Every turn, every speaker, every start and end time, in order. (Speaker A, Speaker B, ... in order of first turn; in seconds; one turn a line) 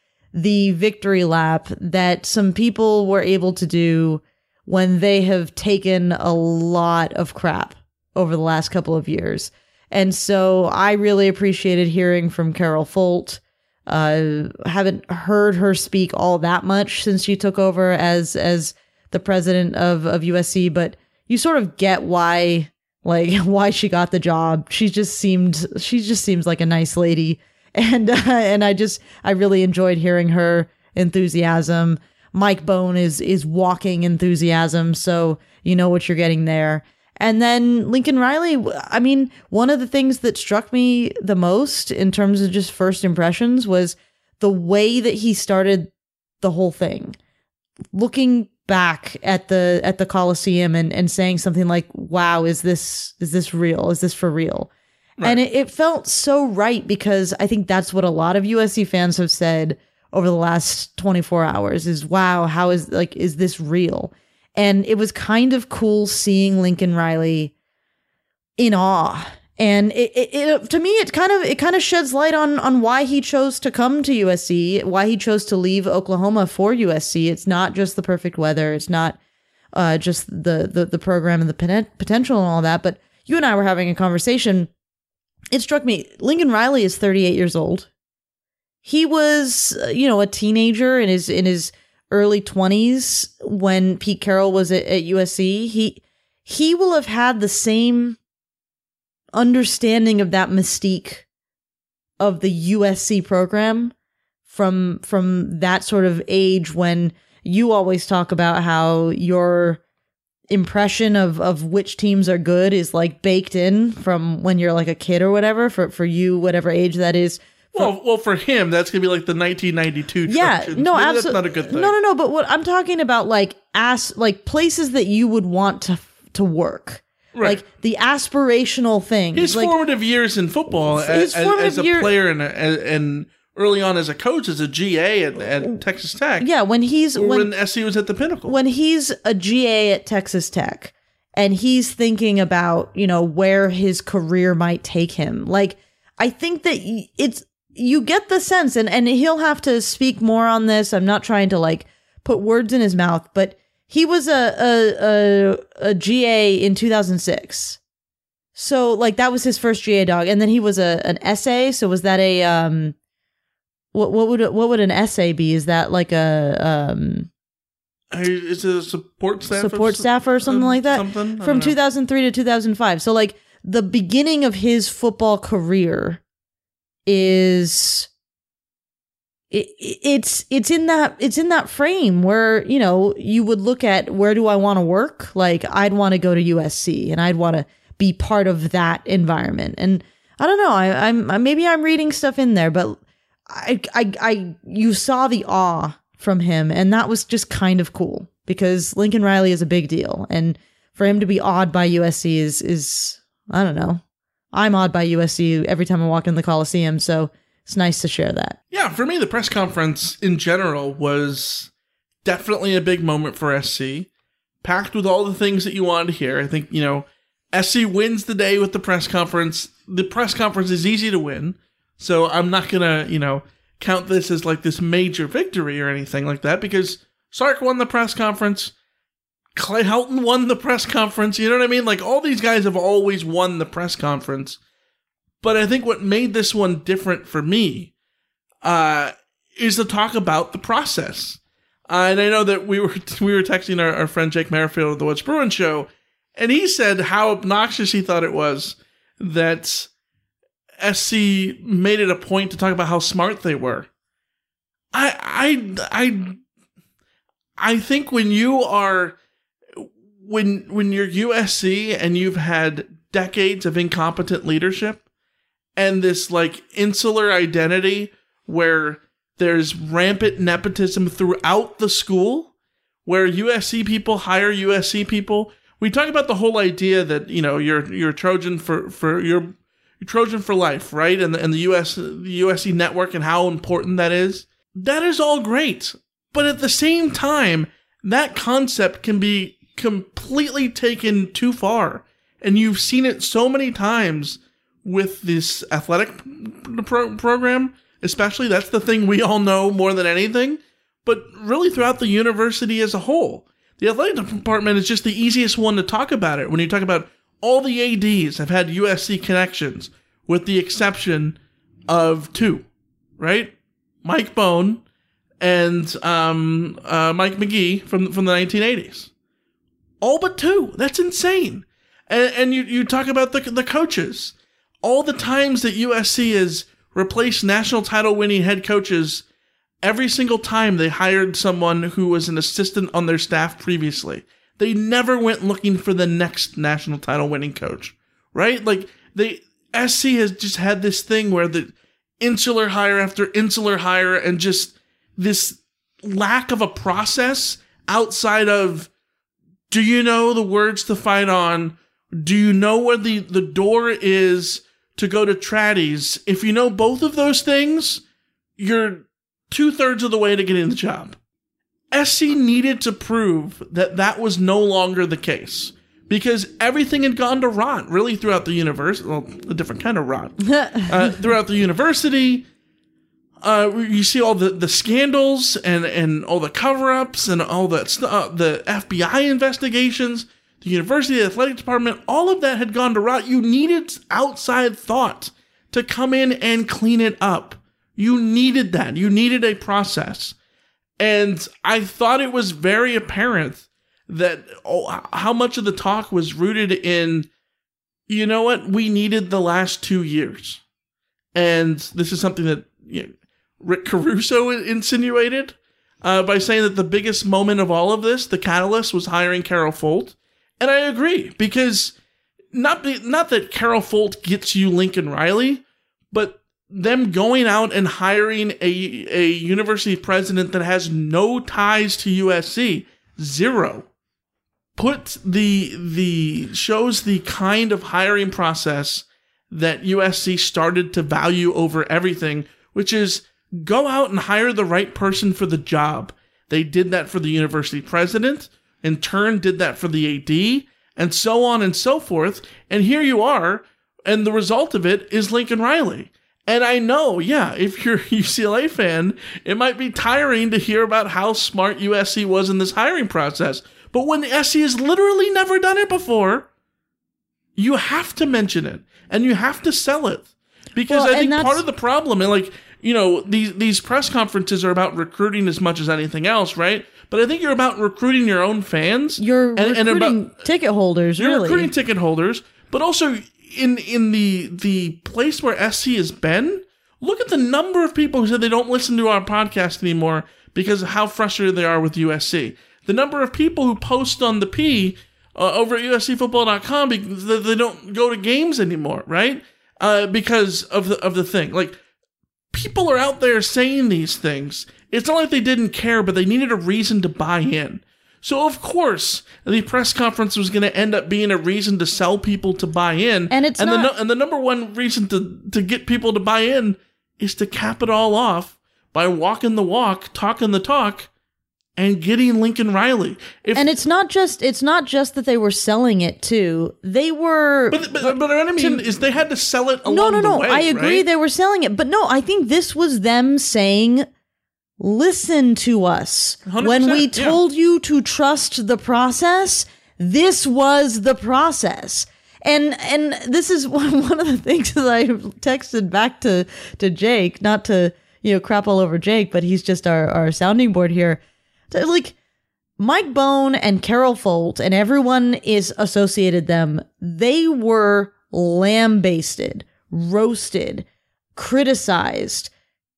Speaker A: 0.3-45.9
Speaker A: 46.4-47.2
Speaker A: 47.9-54.7
Speaker A: 55.2-67.5
Speaker A: 68.6-79.2
Speaker A: 79.7-84.7
Speaker A: 85.5-87.9
Speaker A: 88.8-98.2
Speaker A: 99.3-101.2
Speaker A: 102.2-103.9
Speaker A: 104.5-109.8
Speaker A: 110.5-117.9
Speaker B: 117.7-121.9
Speaker A: 120.3-129.7
Speaker B: 127.3-127.6
Speaker B: 129.3-136.5
Speaker A: 130.8-132.1
Speaker A: 136.4-137.5
Speaker B: 137.2-138.5
Speaker A: 138.4-157.8
Speaker A: 158.6-162.9
Speaker A: 163.9-167.3
Speaker B: 168.1-171.8
Speaker A: 169.6-176.2
Speaker A: 177.1-178.1
Speaker A: 179.5-204.0
Speaker A: 204.5-208.6
Speaker B: 208.7-211.7
Speaker B: 212.2-214.1
Speaker B: 214.6-228.7
Speaker B: 229.5-234.6
Speaker B: 235.4-237.9
Speaker B: 238.6-249.9
Speaker B: 250.8-253.9
Speaker B: 254.9-256.4
Speaker B: 257.6-259.1
Speaker B: 259.8-265.0
Speaker B: 265.8-272.5
Speaker B: 273.0-311.4
Speaker B: 311.9-312.6
Speaker B: 313.2-313.5
Speaker B: 314.0-314.8
Speaker B: 315.4-319.1
Speaker B: 320.0-329.2
Speaker B: 329.8-348.9
Speaker B: 349.7-358.0
Speaker B: 358.6-361.1
Speaker B: 361.9-372.4
Speaker A: 370.4-371.1
Speaker B: 373.4-390.3
Speaker B: 391.0-397.3
Speaker B: 398.1-400.6
Speaker B: 401.3-411.9
Speaker B: 412.5-423.9
Speaker B: 424.8-456.5
Speaker B: 457.6-470.3
Speaker A: 460.9-461.6
Speaker A: 469.2-471.7
Speaker B: 471.2-491.8
Speaker B: 492.5-511.1
Speaker A: 503.3-503.9
Speaker B: 511.8-513.7
Speaker A: 513.5-518.9
Speaker B: 517.7-521.0
Speaker A: 519.9-524.1
Speaker A: 524.8-542.1
Speaker B: 526.5-527.4
Speaker A: 542.8-552.5